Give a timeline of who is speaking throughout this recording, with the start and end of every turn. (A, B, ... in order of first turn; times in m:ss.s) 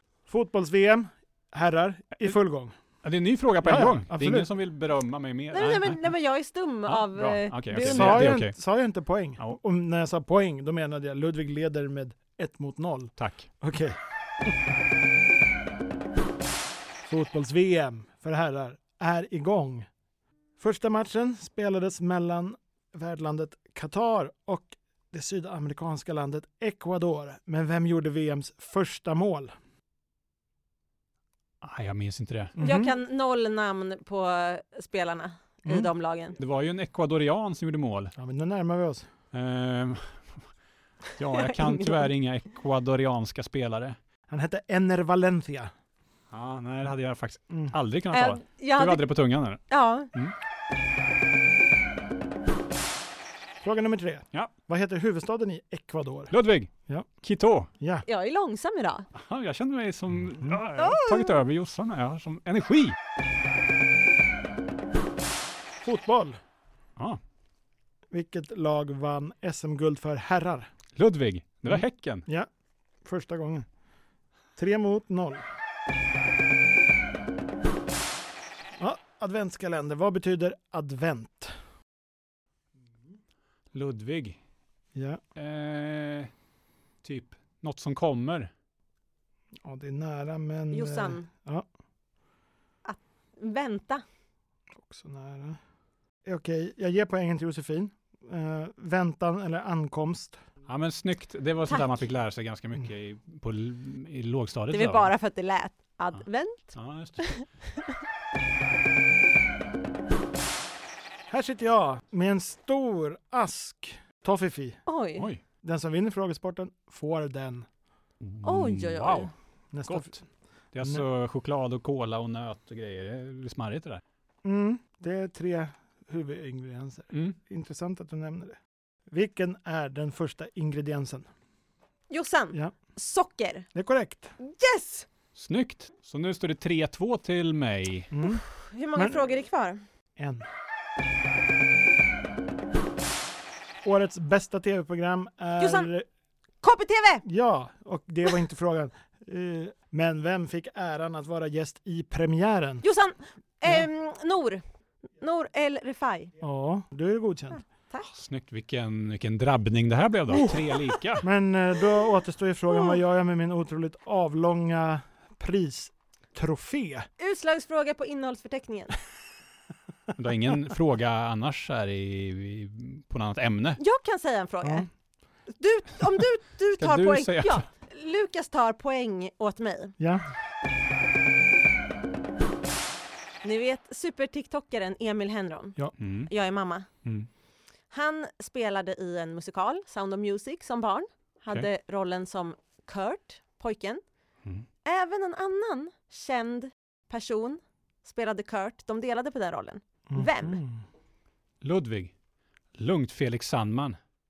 0:00.3-0:02.7 A
0:03.0-0:06.1 B
0:03.6-0:04.5 A
0:05.5-0:08.3 C
0:06.9-0:08.6 B
0:07.9-0:14.0 A
0:13.2-0:13.5 B
0:17.0-0:19.9 A
0:20.6-0:29.5 A
0:31.6-0:32.6 B
0:32.6-0:32.9 A
0:32.6-0:36.4 C
0:36.4-0:38.1 B
0:38.2-0:39.1 A
0:39.3-0:40.4 B
0:41.2-0:44.0 B
0:41.4-0:42.1 C
0:44.3-0:45.7 A
0:46.3-0:50.4 B
0:48.1-0:49.1 C
0:49.7-0:50.1 C
0:53.6-0:56.3 A
0:56.3-0:57.7 B
0:57.8-0:58.0 A
0:58.1-0:59.1 C
0:59.1-1:03.0 B
1:00.8-1:01.4 C
1:05.8-1:06.4 A
1:08.1-1:10.7 A
1:11.0-1:12.3 B
1:11.7-1:12.5 A
1:13.0-1:13.7 A
1:14.6-1:15.5 A
1:18.8-1:21.6 A
1:23.7-1:24.4 B
1:24.9-1:25.2 A
1:25.4-1:26.3 B
1:27.0-1:28.5 B
1:29.6-1:31.7 A
1:30.7-1:31.3 C
1:32.8-1:34.0 C
1:34.8-1:35.6 A
1:36.2-1:40.4 A
1:40.7-1:45.1 B
1:41.7-1:42.0 C
1:44.7-1:47.6 C
1:46.7-1:47.4 B
1:51.3-1:54.8 A
1:54.9-1:55.3 C
1:55.2-1:55.4 B
1:55.6-1:57.7 A
1:58.2-1:59.3 B
1:58.4-1:59.3 C
1:59.7-2:00.2 A
1:59.9-2:00.2 B
2:00.7-2:04.0 B
2:04.4-2:08.6 A
2:07.1-2:07.4 B
2:09.1-2:11.3 A
2:12.1-2:13.7 C
2:13.8-2:14.3 A
2:14.4-2:15.1 C
2:15.4-2:18.1 B
2:18.1-2:18.4 A
2:18.2-2:19.8 C
2:19.0-2:19.2 A
2:20.2-2:20.4 A
2:23.8-2:26.1 A
2:25.6-2:25.9 C
2:26.6-2:27.2 C
2:27.2-2:32.8 A
2:32.8-2:34.6 C
2:35.2-2:36.3 C
2:36.4-2:37.6 A
2:38.0-2:41.2 B
2:41.2-2:47.1 A
2:42.7-2:43.0 C
2:47.2-2:49.0 C
2:50.2-2:53.8 B
2:53.8-2:54.9 C
2:54.6-2:54.9 A
2:55.5-3:00.0 C
2:56.8-2:57.6 B
3:00.0-3:00.2 A
3:03.4-3:06.9 C
3:06.0-3:06.3 B
3:07.9-3:14.0 C
3:14.8-3:20.6 C
3:20.1-3:20.8 A
3:21.6-3:22.1 B
3:22.7-3:24.0 B